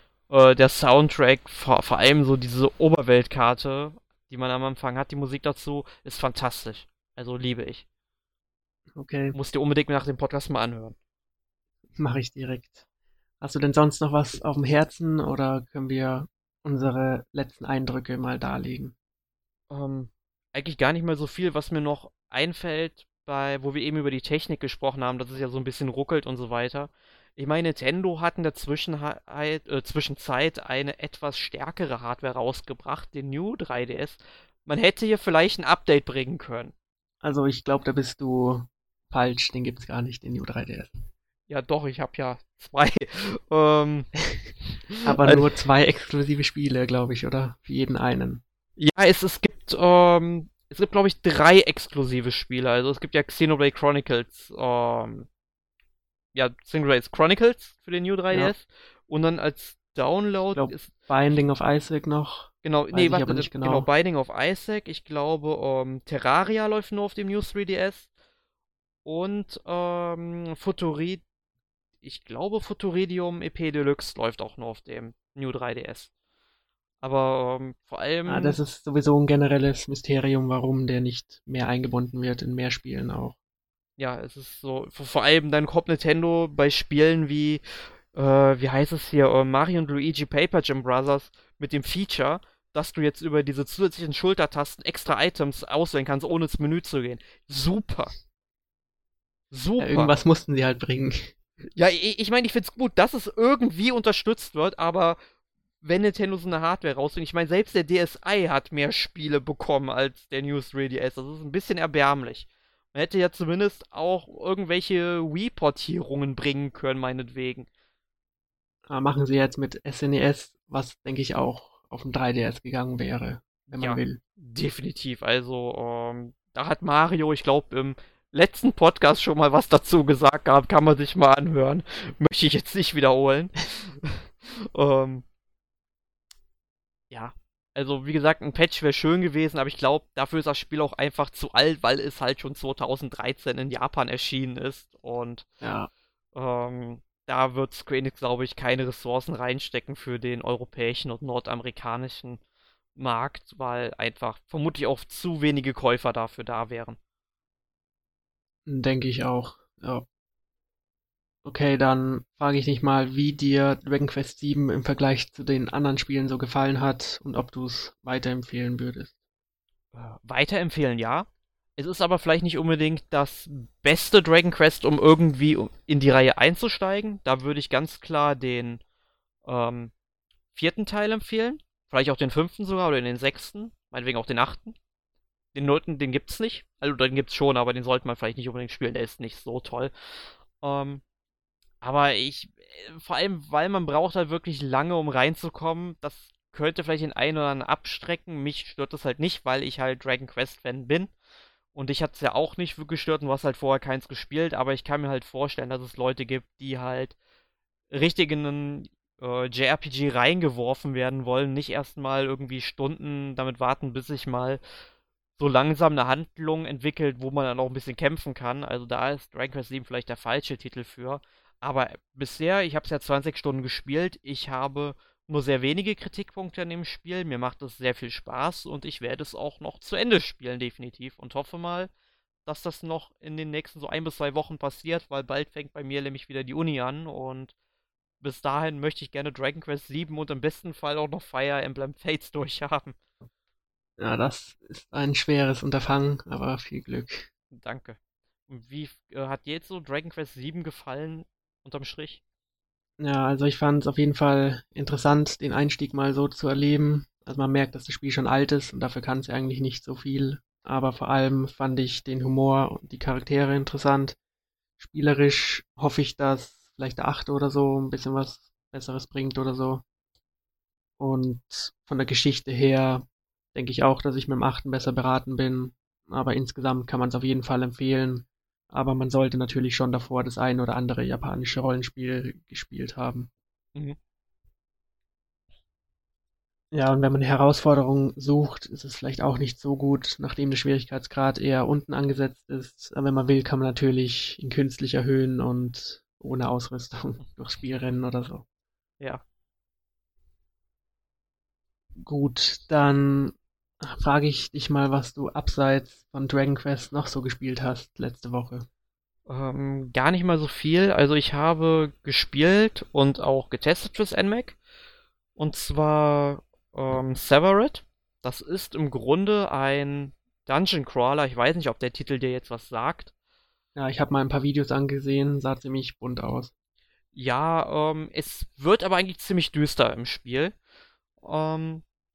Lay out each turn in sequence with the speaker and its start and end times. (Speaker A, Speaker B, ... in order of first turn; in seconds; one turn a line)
Speaker A: 0.3-7.8
Speaker B: 8.9-9.4
Speaker A: 9.3-11.0
Speaker B: 12.0-12.8
Speaker B: 13.4-18.9
Speaker A: 19.7-36.7
Speaker B: 37.2-41.0
Speaker A: 41.5-44.1
Speaker A: 44.9-45.5
Speaker B: 45.0-48.4
Speaker A: 48.8-55.3
Speaker A: 56.4-60.9
Speaker B: 60.5-63.9
Speaker A: 62.6-68.1
Speaker A: 69.0-71.2
Speaker A: 72.0-76.1
Speaker A: 77.0-78.6
Speaker B: 78.3-83.4
Speaker A: 84.0-87.6
Speaker A: 88.1-98.1
Speaker A: 99.5-100.1
Speaker B: 99.8-101.3
Speaker A: 101.8-105.2
Speaker A: 105.8-117.7
Speaker B: 118.9-124.2
Speaker A: 123.7-135.2
Speaker A: 137.1-145.5
Speaker B: 145.6-145.9
Speaker A: 146.3-152.4
Speaker A: 153.0-157.0
Speaker B: 158.7-160.1
Speaker B: 161.4-169.1
Speaker A: 169.9-178.8
Speaker A: 179.4-179.9
Speaker A: 180.5-184.8
Speaker A: 185.5-189.9
Speaker A: 190.6-191.0
Speaker A: 191.8-201.1
Speaker A: 201.7-207.2
Speaker A: 207.9-214.6
Speaker A: 215.4-231.9
Speaker A: 232.5-237.5
Speaker A: 238.2-243.0
Speaker B: 244.0-247.3
Speaker A: 247.5-252.2
Speaker B: 253.0-264.2
Speaker B: 264.8-269.8
Speaker B: 271.0-283.3
Speaker B: 286.7-298.4
Speaker B: 302.0-308.7
Speaker A: 309.3-314.6
Speaker A: 315.4-323.1
Speaker B: 323.8-326.5
Speaker A: 327.1-330.6
Speaker A: 331.2-331.8